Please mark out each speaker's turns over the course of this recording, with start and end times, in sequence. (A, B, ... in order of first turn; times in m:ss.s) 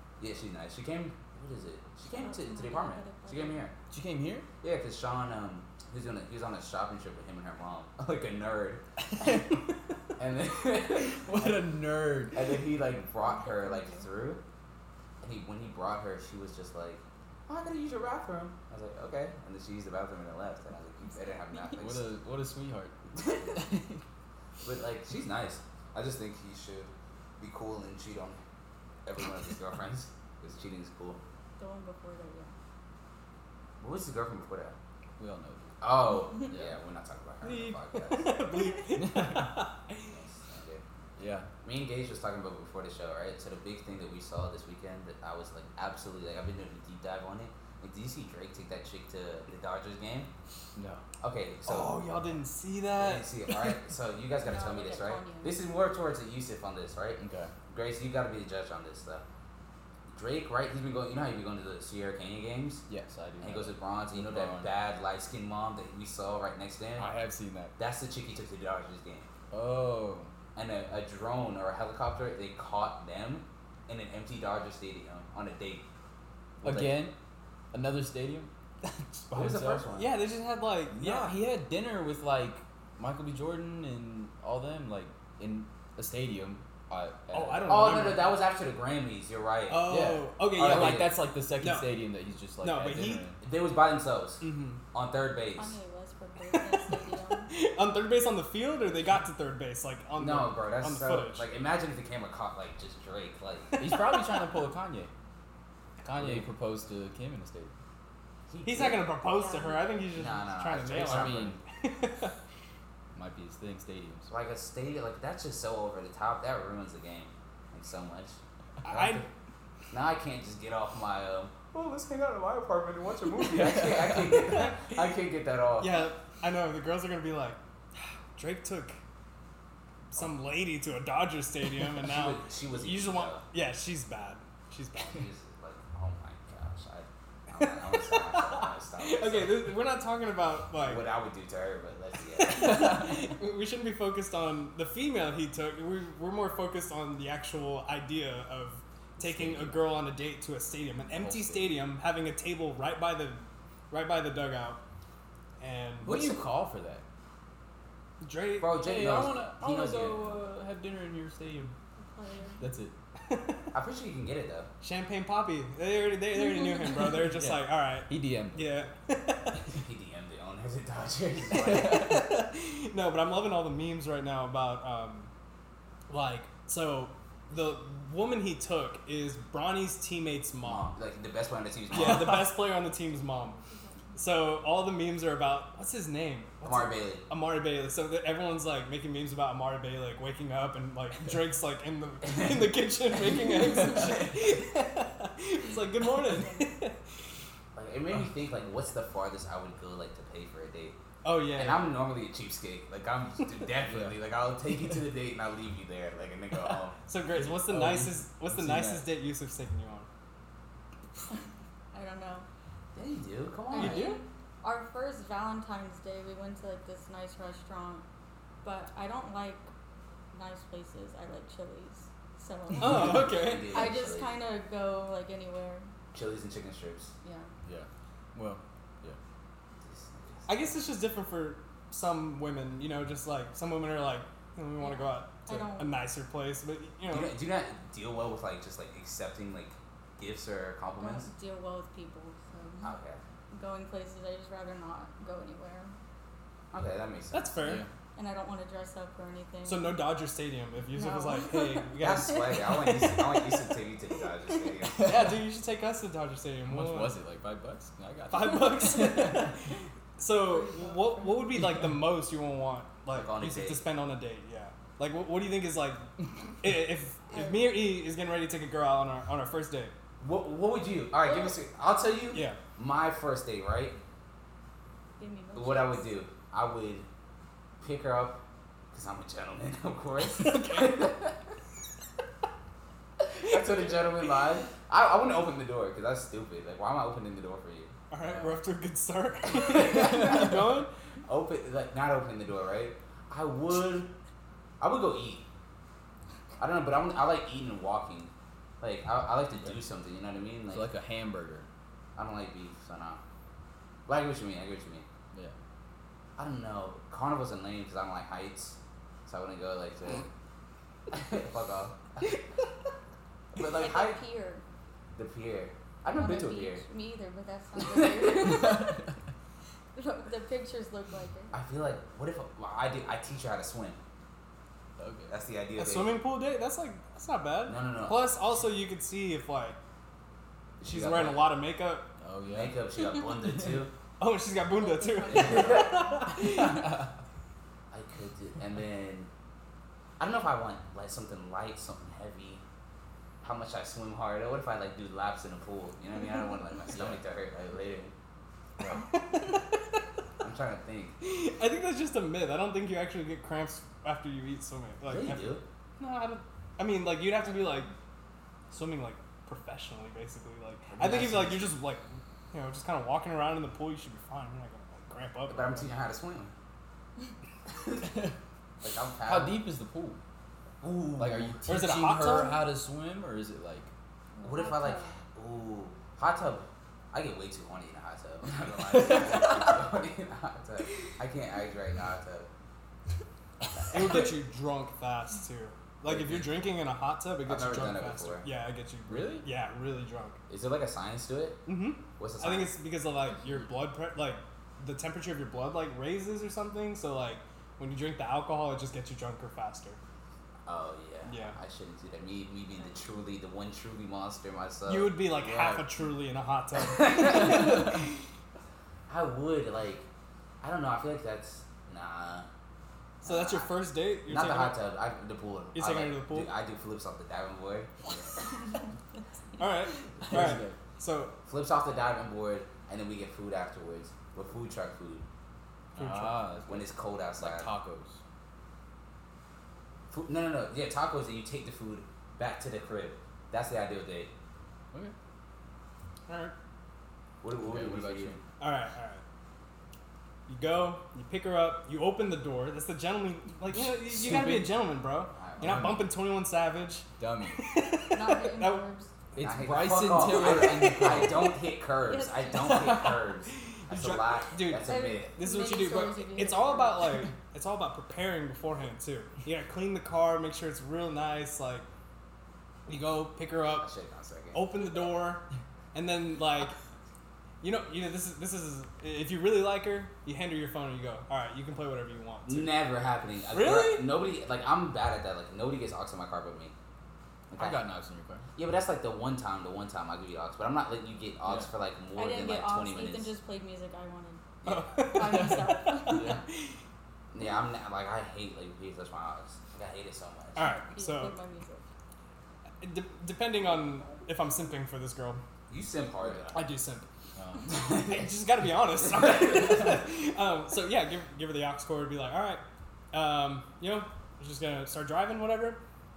0:00.2-0:03.7 A
0:02.1-0:03.6 B
0:03.9-0:04.5 C
0:04.6-0:08.8 A
0:09.1-0:09.6 C
0:10.2-0:11.7 A
0:10.9-0:12.6 C
0:12.3-0:14.4 A
0:13.2-0:14.0 B
0:15.2-0:22.0 A
0:21.0-0:21.8 B
0:21.8-0:24.0 C
0:23.2-0:23.7 A
0:24.6-0:28.4 A
0:29.0-0:31.2 A
0:31.6-0:32.5 B
0:33.8-0:34.8 A
0:35.2-0:35.7 C
0:35.8-0:38.5 A
0:37.4-0:40.1 D
0:38.9-0:39.6 C
0:40.1-0:40.8 A
0:41.2-0:41.5 C
0:41.6-0:50.3 A
0:50.7-0:51.0 C
0:51.2-0:52.1 A
0:51.6-0:53.3 D
0:52.9-0:59.2 A
0:54.4-0:55.6 B
0:57.2-0:57.5 C
1:00.1-1:02.8 A
1:02.9-1:04.7 C
1:03.4-1:07.1 A
1:07.0-1:07.7 C
1:07.8-1:09.3 A
1:09.5-1:10.3 C
1:10.5-1:15.8 A
1:16.6-1:17.1 A
1:16.6-1:17.1 C
1:17.7-1:19.8 C
1:19.3-1:20.1 A
1:19.9-1:21.3 D
1:20.9-1:28.0 C
1:27.3-1:28.3 D
1:27.7-1:29.9 A
1:29.7-1:31.9 D
1:29.8-1:33.4 C
1:30.6-1:31.2 A
1:32.6-1:33.2 D
1:33.4-1:34.4 A
1:34.4-1:34.8 D
1:34.9-1:35.8 A
1:35.5-1:37.5 B
1:37.5-1:41.4 D
1:40.2-1:43.8 A
1:43.7-1:44.4 D
1:43.8-1:45.1 C
1:46.0-1:47.7 C
1:46.2-1:46.5 A
1:48.5-1:49.1 A
1:48.6-1:52.3 D
1:49.3-1:50.0 B
1:50.2-1:51.6 A
1:50.9-1:51.6 C
1:53.1-1:54.3 C
1:54.3-1:59.2 A
1:58.8-1:59.3 D
1:59.9-2:06.0 A
2:03.4-2:04.6 C
2:05.8-2:07.6 D
2:08.4-2:09.0 D
2:10.1-2:15.3 D
2:12.0-2:13.4 A
2:15.1-2:19.7 A
2:17.6-2:21.1 D
2:20.8-2:23.0 A
2:22.4-2:34.8 D
2:22.5-2:23.2 C
2:29.2-2:29.8 C
2:31.1-2:31.8 C
2:35.6-2:36.1 D
2:36.0-2:36.4 A
2:36.0-2:37.0 C
2:38.2-2:38.8 D
2:38.6-2:40.4 A
2:38.8-2:41.7 C
2:42.0-2:42.6 B
2:42.6-2:42.9 C
2:43.2-2:43.6 D
2:43.7-2:44.7 A
2:44.8-2:49.6 D
2:47.3-2:48.9 C
2:49.5-2:52.1 A
2:51.5-2:52.2 C
2:51.7-2:55.3 D
2:56.1-3:00.9 D
3:00.6-3:02.5 A
3:01.9-3:03.6 D
3:01.9-3:02.4 C
3:03.5-3:04.2 B
3:04.1-3:17.0 D
3:06.6-3:07.2 A
3:13.8-3:14.1 C
3:16.3-3:16.7 B
3:17.7-3:21.0 A
3:21.2-3:21.9 D
3:21.5-3:27.0 A
3:23.8-3:24.1 C
3:27.1-3:30.1 D
3:27.3-3:29.1 C
3:31.9-3:32.5 B
3:32.9-3:34.1 A
3:33.7-3:38.0 B
3:33.7-3:34.2 D
3:38.6-3:39.7 B
3:40.3-3:45.9 B
3:42.8-3:43.8 D
3:42.8-3:44.4 A
3:46.1-3:47.1 A
3:47.2-3:47.5 B
3:47.6-3:49.2 C
3:49.8-3:50.8 A
3:50.5-3:57.3 D
3:54.8-3:56.0 B
3:57.1-4:01.3 A
4:01.0-4:02.9 B
4:02.8-4:03.2 A
4:03.5-4:05.9 B
4:06.7-4:07.6 A
4:07.3-4:07.8 D
4:07.6-4:07.9 C
4:08.2-4:10.0 B
4:09.6-4:12.6 D
4:10.9-4:11.9 B
4:12.0-4:15.1 A
4:12.5-4:13.2 B
4:15.0-4:15.3 C
4:15.0-4:17.2 D
4:16.7-4:19.5 C
4:18.3-4:26.0 D
4:20.5-4:21.3 B
4:21.6-4:21.9 C
4:23.1-4:23.8 A
4:26.6-4:29.9 D
4:30.2-4:34.0 A
4:31.2-4:31.6 B
4:32.3-4:32.6 D
4:35.2-4:36.1 B
4:35.5-4:37.0 A
4:37.8-4:38.4 A
4:38.9-4:41.4 A
4:40.4-4:41.0 D
4:43.2-4:47.9 A
4:48.1-4:50.9 D
4:48.2-4:48.6 C
4:49.4-4:54.1 A
4:54.8-4:55.4 A
4:56.6-5:00.9 A
5:00.7-5:01.7 C
5:02.2-5:03.2 A
5:04.1-5:05.0 A
5:06.4-5:10.3 A
5:11.1-5:12.3 A
5:13.5-5:14.2 A
5:13.7-5:14.6 B
5:15.2-5:16.8 A
5:16.1-5:19.1 B
5:17.8-5:18.5 A
5:19.9-5:21.5 B
5:21.5-5:24.0 A
5:25.0-5:25.3 C
5:25.3-5:26.2 A
5:25.8-5:29.8 D
5:27.6-5:28.2 A
5:30.8-5:31.4 A
5:30.8-5:32.1 D
5:32.2-5:32.8 C
5:32.5-5:33.9 A
5:34.2-5:36.9 D
5:34.7-5:36.3 B
5:35.3-5:36.1 A
5:36.6-5:37.0 C
5:37.9-5:39.3 A
5:40.2-5:42.6 A
5:43.4-5:48.1 A
5:46.9-5:47.2 C
5:48.8-5:49.0 C
5:49.1-5:49.6 D
5:50.4-5:51.2 A
5:51.2-5:57.9 D
5:55.1-5:55.6 A
5:58.7-6:05.9 D
6:00.9-6:01.7 A
6:05.5-6:06.5 A
6:08.8-6:09.6 A
6:09.2-6:10.2 C
6:10.8-6:12.0 A
6:11.2-6:13.9 C
6:11.7-6:12.6 D
6:14.4-6:15.1 B
6:14.4-6:22.5 A
6:18.9-6:19.8 C
6:23.8-6:24.2 A
6:23.9-6:30.4 D
6:26.1-6:26.5 C
6:27.4-6:28.4 A
6:29.1-6:29.4 C
6:30.5-6:31.6 A
6:31.6-6:40.0 D
6:32.2-6:32.7 A
6:40.7-6:45.2 A
6:41.2-6:41.6 D
6:44.9-6:47.9 D
6:45.4-6:45.9 C
6:46.8-6:48.0 A
6:47.5-6:47.9 C
6:49.1-6:50.1 A
6:50.6-6:52.5 A
6:53.2-6:53.7 A
6:53.2-6:54.8 D
6:54.3-6:57.9 A
6:55.7-6:56.5 D
6:59.6-7:01.3 D
7:00.2-7:00.8 C
7:01.5-7:05.2 A
7:06.0-7:06.4 D
7:06.0-7:08.2 C
7:06.7-7:07.7 A
7:10.1-7:14.3 A
7:16.3-7:16.5 D
7:17.4-7:18.4 A
7:17.6-7:18.4 C
7:18.6-7:19.2 D
7:20.5-7:28.8 D
7:24.1-7:24.7 A
7:24.2-7:24.6 C
7:25.3-7:26.0 A
7:25.6-7:26.1 C
7:27.2-7:27.6 C
7:28.1-7:29.1 B
7:29.3-7:31.5 C
7:29.4-7:35.3 A
7:30.1-7:31.2 D
7:32.0-7:33.0 B
7:32.6-7:33.1 C
7:33.7-7:41.8 D
7:34.8-7:37.2 B
7:42.9-7:43.9 D
7:43.8-7:44.6 A
7:44.5-7:46.7 D
7:47.6-7:52.8 D
7:52.4-7:56.7 A
7:53.5-7:54.1 D
7:57.5-7:57.8 A
7:57.6-7:58.5 C
7:58.6-8:03.3 A
8:01.4-8:01.7 C
8:02.2-8:04.4 B
8:04.6-8:05.0 A
8:04.6-8:06.4 D
8:05.1-8:06.4 B
8:05.1-8:06.4 C
8:07.3-8:10.7 A
8:10.5-8:11.3 D
8:10.6-8:11.8 B
8:12.8-8:15.4 D
8:15.7-8:16.6 A
8:16.2-8:16.5 C
8:16.5-8:17.0 D
8:17.4-8:17.7 C
8:17.7-8:18.3 A
8:17.9-8:25.8 D
8:19.0-8:20.0 A